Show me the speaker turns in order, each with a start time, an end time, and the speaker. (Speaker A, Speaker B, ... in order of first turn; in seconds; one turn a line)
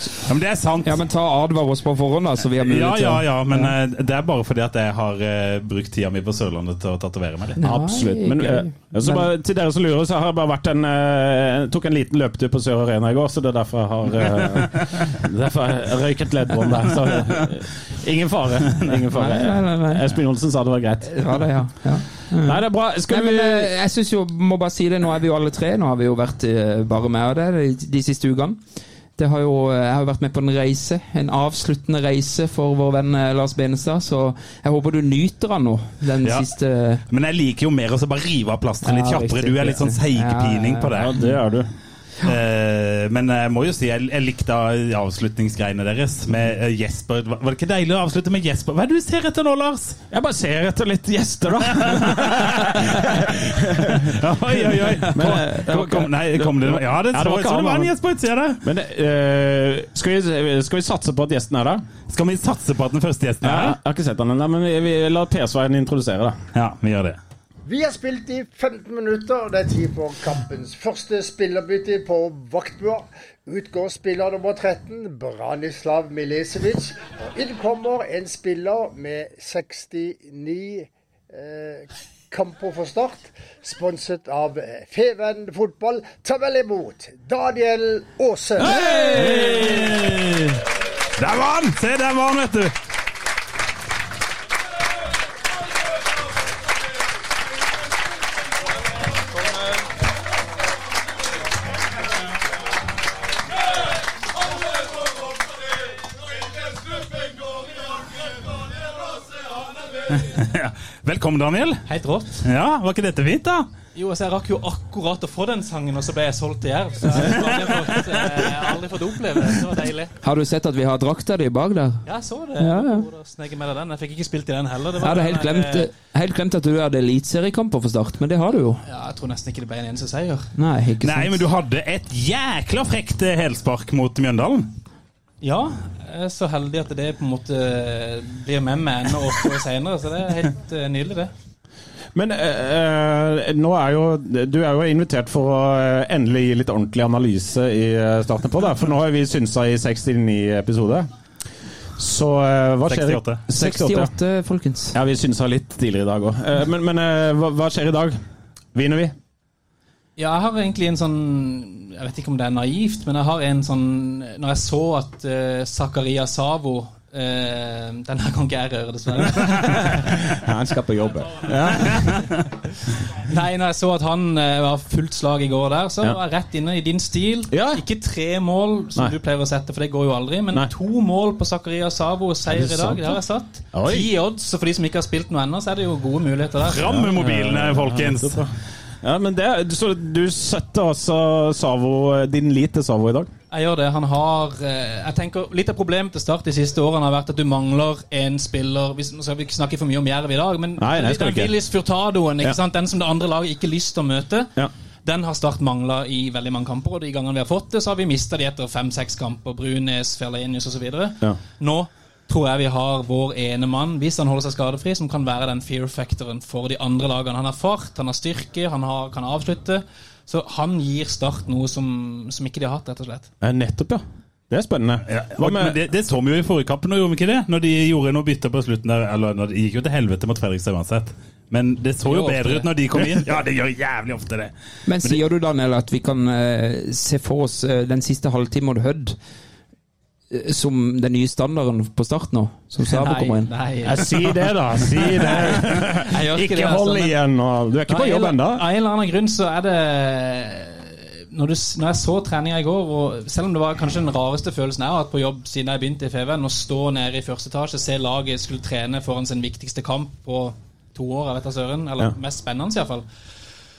Speaker A: 0.2-1.0
Speaker B: 0.8-3.8
Speaker A: 2.6-7.6
Speaker B: 7.6-9.3
Speaker C: 7.6-21.3
Speaker B: 19.1-20.1
Speaker B: 21.1-28.6
Speaker C: 22.4-23.7
Speaker B: 29.2-37.0
Speaker A: 36.2-36.5
Speaker A: 37.1-41.2
Speaker B: 38.8-41.4
Speaker C: 41.0-41.7
Speaker A: 42.2-50.0
Speaker C: 50.1-57.9
Speaker A: 51.6-58.6
Speaker C: 58.6-61.8
Speaker A: 62.1-63.8
Speaker C: 63.4-66.4
Speaker A: 66.5-67.2
Speaker D: 67.7-88.8
Speaker A: 88.6-90.6
Speaker C: 88.7-90.0
Speaker A: 91.2-92.7
Speaker A: 110.1-111.8
Speaker E: 111.9-112.4
Speaker A: 112.4-113.7
Speaker E: 114.0-120.1
Speaker B: 120.2-122.0
Speaker E: 122.1-125.9
Speaker B: 122.6-123.1
Speaker B: 125.0-128.8
Speaker E: 128.8-130.5
Speaker B: 130.6-131.5
Speaker A: 131.0-134.7
Speaker E: 135.4-141.3
Speaker C: 142.2-151.1
Speaker C: 152.0-154.1
Speaker A: 152.9-153.4
Speaker B: 153.6-155.0
Speaker C: 154.9-158.2
Speaker C: 158.7-159.1
Speaker E: 160.2-170.0
Speaker C: 169.6-172.2
Speaker E: 173.3-186.9
Speaker C: 177.5-177.8
Speaker C: 182.5-183.2
Speaker C: 183.7-184.1
Speaker A: 186.7-188.4
Speaker C: 186.8-188.5
Speaker C: 189.0-193.3
Speaker E: 193.5-204.5
Speaker C: 200.8-201.5
Speaker E: 205.1-223.3
Speaker C: 223.4-225.8
Speaker A: 225.1-234.5
Speaker E: 232.1-232.7
Speaker B: 234.9-239.2
Speaker B: 240.3-243.5
Speaker E: 242.8-244.1
Speaker C: 243.8-248.7
Speaker E: 245.1-247.2
Speaker E: 247.9-263.1